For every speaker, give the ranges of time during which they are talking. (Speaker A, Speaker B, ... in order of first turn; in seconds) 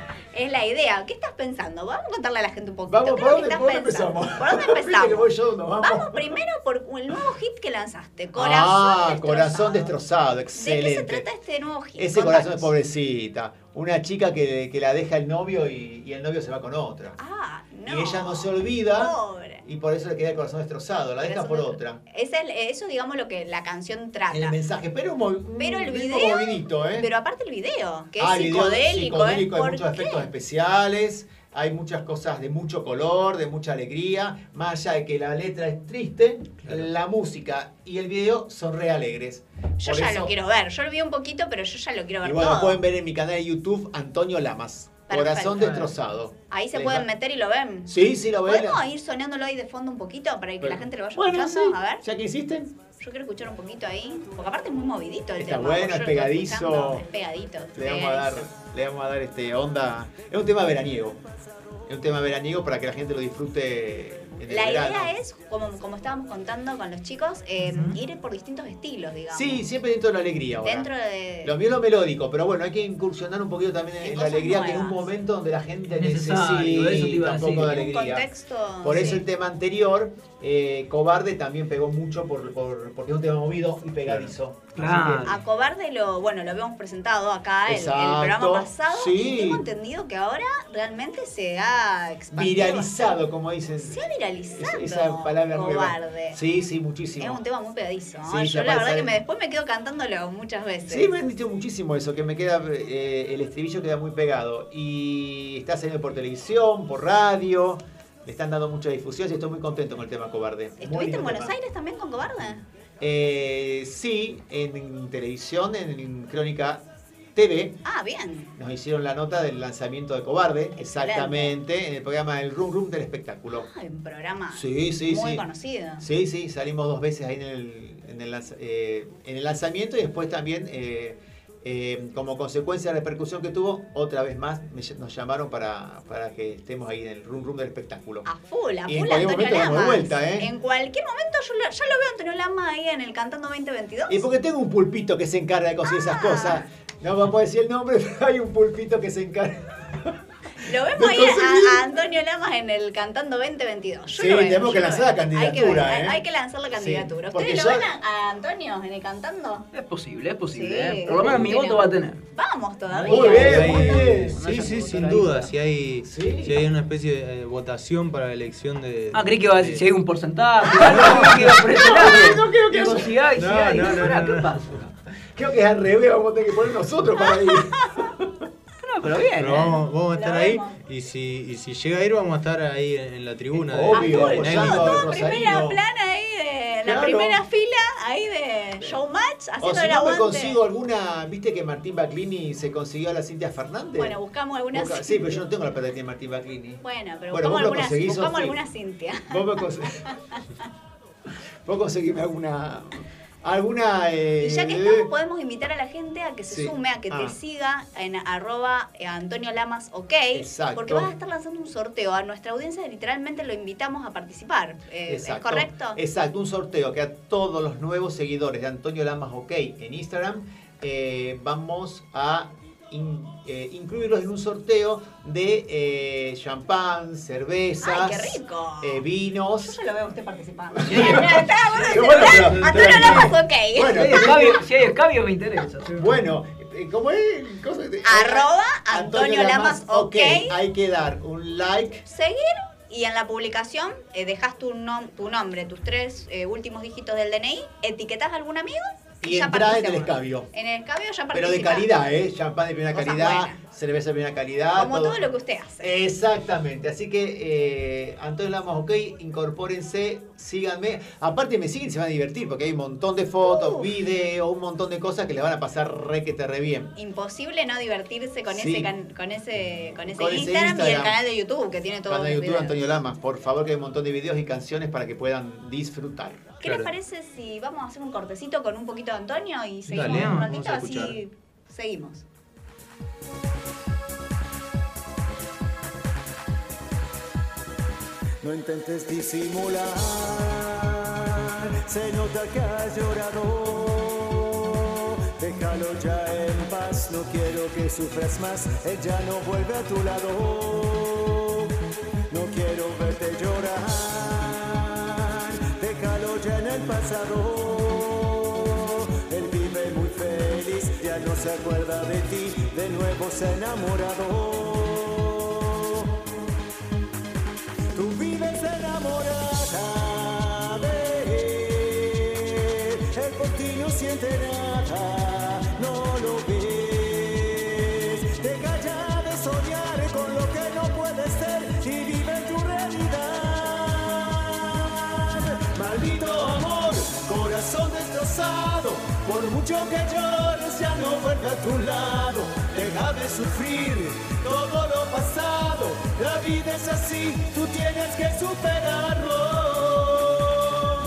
Speaker A: 0.3-9.9, 10.6-12.7, 17.2-19.6, 21.2-24.6, 25.6-30.3, 39.8-42.8, 45.1-45.8, 46.5-47.9, 48.5-52.0, 53.0-58.5, 64.5-69.7, 70.6-71.5, 74.0-75.0, 77.7-79.2, 85.2-93.2, 93.8-96.4, 97.2-101.1, 110.8-112.6, 117.8-118.5, 120.8-121.5, 123.5-126.0, 138.3-144.2, 145.9-146.6, 150.7-159.7, 160.5-163.6, 177.2-177.5, 180.1-180.8, 183.9-190.6, 194.0-195.4, 196.8-200.1, 204.4-216.0, 227.8-229.0, 229.6-234.0, 238.0-240.6, 242.1-251.9, 252.9-253.6, 254.8-255.9, 263.4-263.9, 267.0-272.8, 276.6-282.2
Speaker B: 2.9-6.4, 8.4-11.3, 12.0-17.2, 17.9-22.0, 24.3-27.1, 28.2-40.3, 42.2-47.1, 47.9-48.8, 50.6-52.9, 55.4-57.0, 57.7-61.2, 61.9-65.1, 69.3-70.9, 71.4-78.3, 78.8-85.3, 87.7-89.7, 92.3-97.4, 98.2-99.2, 100.9-111.5, 112.4-116.8, 117.3-117.8, 118.6-123.7, 124.5-125.5, 126.0-138.3, 138.9-140.5, 144.1-150.1, 150.9-152.0, 154.1-157.9, 161.1-161.5, 163.1-164.5, 166.0-166.6, 170.7-174.2, 175.4-178.3, 183.5-185.8, 186.8-187.4, 189.6-194.2, 194.7-198.6, 199.3-200.1, 201.7-205.1, 206.5-207.3, 210.3-211.1, 215.1-229.9, 230.8-234.7, 235.9-242.0, 249.2-250.5, 251.3-255.3, 255.8-266.9, 268.5-268.9, 270.1-271.2, 272.1-276.6
Speaker C: 67.6-68.0, 75.9-77.9, 84.7-85.3, 159.7-162.2, 163.1-165.5, 169.1-174.9, 178.8-179.8, 230.9-233.3, 233.9-236.2, 279.9-280.5
Speaker D: 163.2-169.8, 173.3-174.6, 179.4-185.0, 276.6-276.9, 279.9-281.2
Speaker E: 288.4-301.7, 302.3-316.1, 317.9-350.7